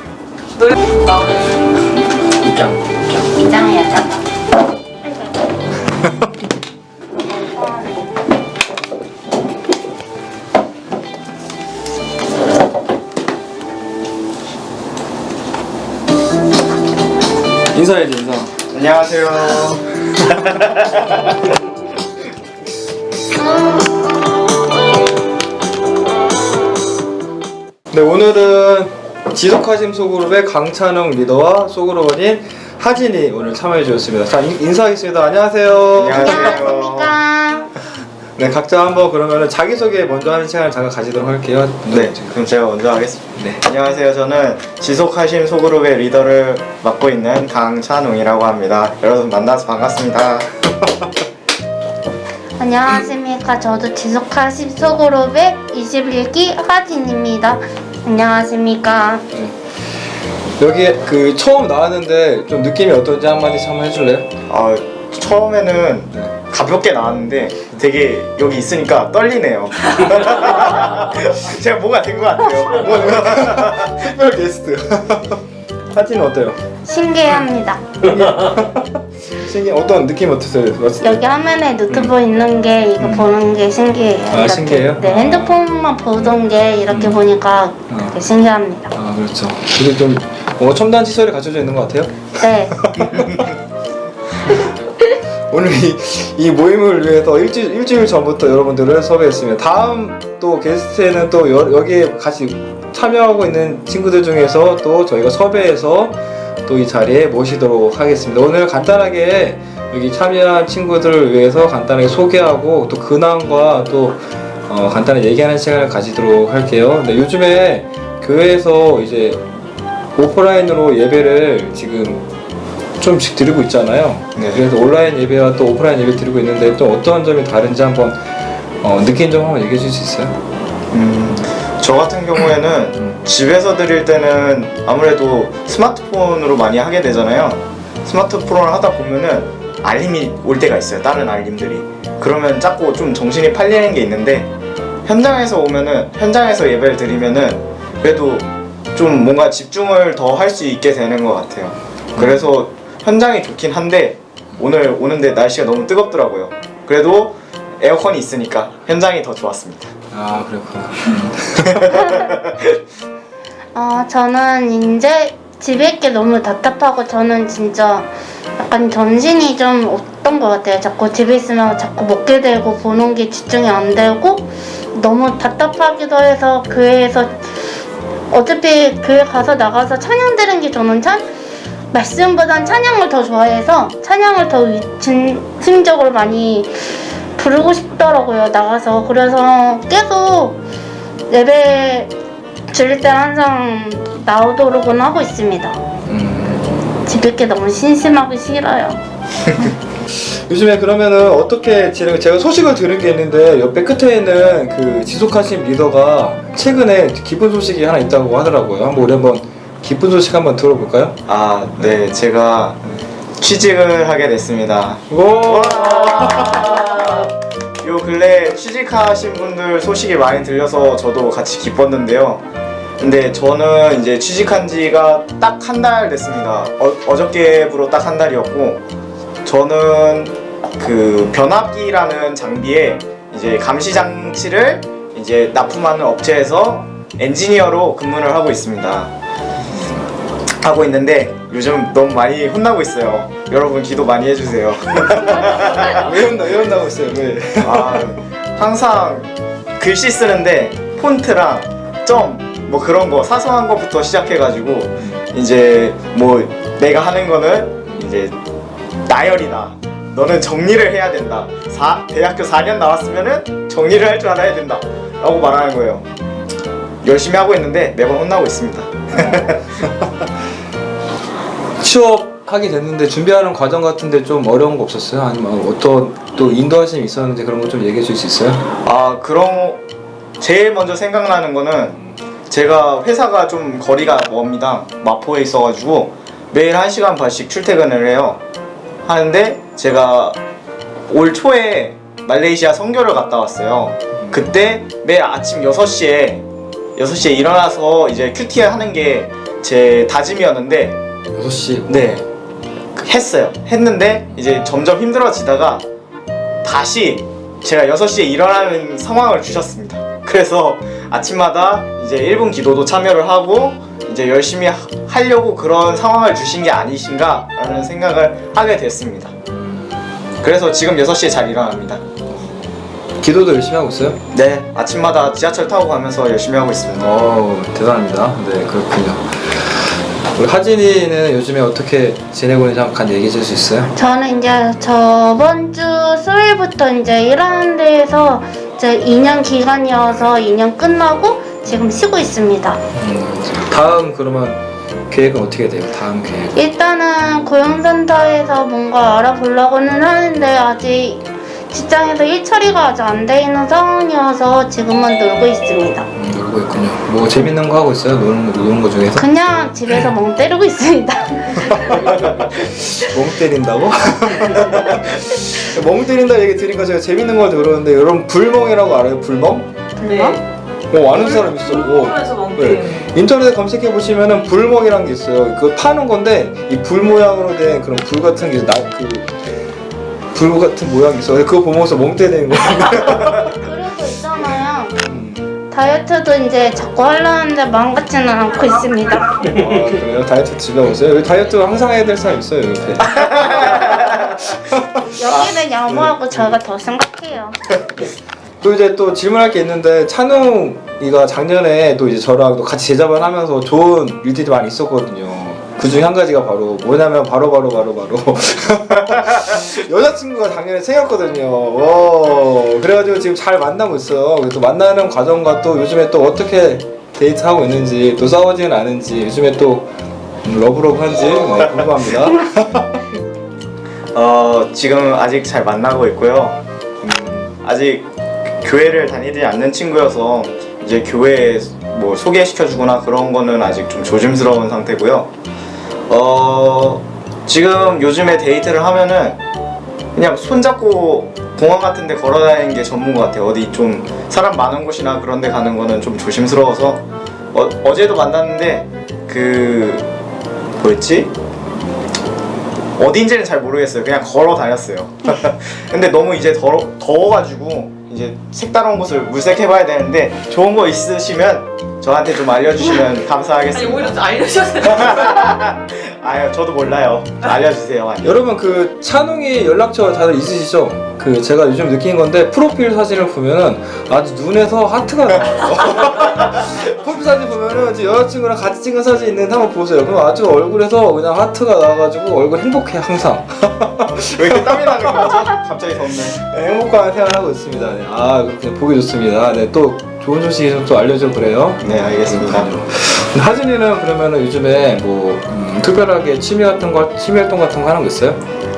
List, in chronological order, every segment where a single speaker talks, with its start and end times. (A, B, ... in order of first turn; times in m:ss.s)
0:00.6-0:01.5 A
0:03.2-0:04.2 B
0:05.0-0:05.3 B
0:07.1-0:08.2 B
0:17.7-0:18.5 C
0:18.7-0:21.3 D
0:27.9-0:36.6 C
0:36.0-0:37.1 D
0:36.1-0:37.7 B
0:38.4-0:42.4 C
0:41.9-0:50.6 D
0:43.4-0:43.6 C
0:52.6-0:59.3 B
1:00.6-1:04.4 C
1:04.5-1:14.0 D
1:12.7-1:16.6 C
1:16.8-1:17.8 B
1:18.0-1:21.3 C
1:21.0-1:28.9 B
1:21.9-1:22.2 C
1:23.0-1:23.3 C
1:24.3-1:25.6 C
1:26.9-1:27.2 C
1:27.9-1:28.2 C
1:28.9-1:33.4 C
1:32.4-1:32.8 B
1:33.1-1:33.5 D
1:35.5-1:59.4 C
2:00.2-2:02.2 C
2:03.0-2:08.2 C
2:04.4-2:04.6 D
2:08.8-2:10.4 C
2:10.9-2:24.5 D
2:25.1-2:39.9 D
2:32.2-2:32.5 C
2:40.1-2:42.0 C
2:41.8-2:42.8 D
2:43.7-2:57.5 B
2:58.3-3:01.2 B
3:01.9-3:10.6 B
3:11.3-3:12.1 B
3:12.7-3:15.8 B
3:16.1-3:16.9 C
3:17.0-3:19.0 B
3:20.1-3:31.2 C
3:31.3-3:32.8 D
3:33.4-3:37.3 D
3:35.1-3:36.7 C
3:37.8-3:42.4 D
3:43.0-3:48.8 D
3:49.4-3:59.1 D
3:59.6-4:00.1 C
4:00.6-4:06.0 D
4:05.9-4:08.1 C
4:07.6-4:18.4 D
4:19.1-4:26.1 D
4:27.0-4:29.6 D
4:29.2-4:29.9 C
4:31.8-4:38.6 C
4:38.8-4:39.8 D
4:40.4-4:48.4 D
4:49.1-4:50.4 D
4:51.1-4:56.4 D
4:54.2-4:54.5 C
4:57.0-5:01.0 D
5:01.3-5:02.2 C
5:01.9-5:02.2 D
5:03.0-5:05.8 D
5:06.6-5:19.3 D
5:19.5-5:20.1 C
5:20.4-5:22.0 D
5:22.3-5:24.2 C
5:24.3-5:27.1 D
5:27.0-5:33.9 C
5:33.9-5:42.8 B
5:41.6-5:42.0 C
5:42.9-5:46.6 C
5:46.6-5:56.1 B
5:56.2-5:59.3 C
5:59.1-6:02.3 B
6:01.8-6:09.7 C
6:10.0-6:10.4 B
6:10.0-6:10.4 A
6:10.9-6:19.3 C
6:11.0-6:13.2 A
6:20.3-6:23.4 C
6:23.4-6:25.0 B
6:25.0-6:25.5 C
6:25.7-6:29.4 B
6:29.4-6:34.0 C
6:33.3-6:34.6 D
6:35.2-6:37.6 B
6:35.3-6:36.2 D
6:36.3-6:36.6 C
6:38.6-6:59.9 C
7:00.4-7:03.0 C
7:01.4-7:01.9 D
7:04.1-7:08.1 D
7:08.6-7:15.3 D
7:16.1-7:19.4 D
7:20.1-7:27.0 D
7:27.5-7:30.1 D
7:30.8-7:31.3 D
7:33.0-7:44.2 D
7:43.7-7:45.5 A
7:44.8-7:48.3 D
7:48.2-8:05.4 C
8:04.1-8:06.4 D
8:06.4-8:18.4 C
8:11.8-8:12.7 D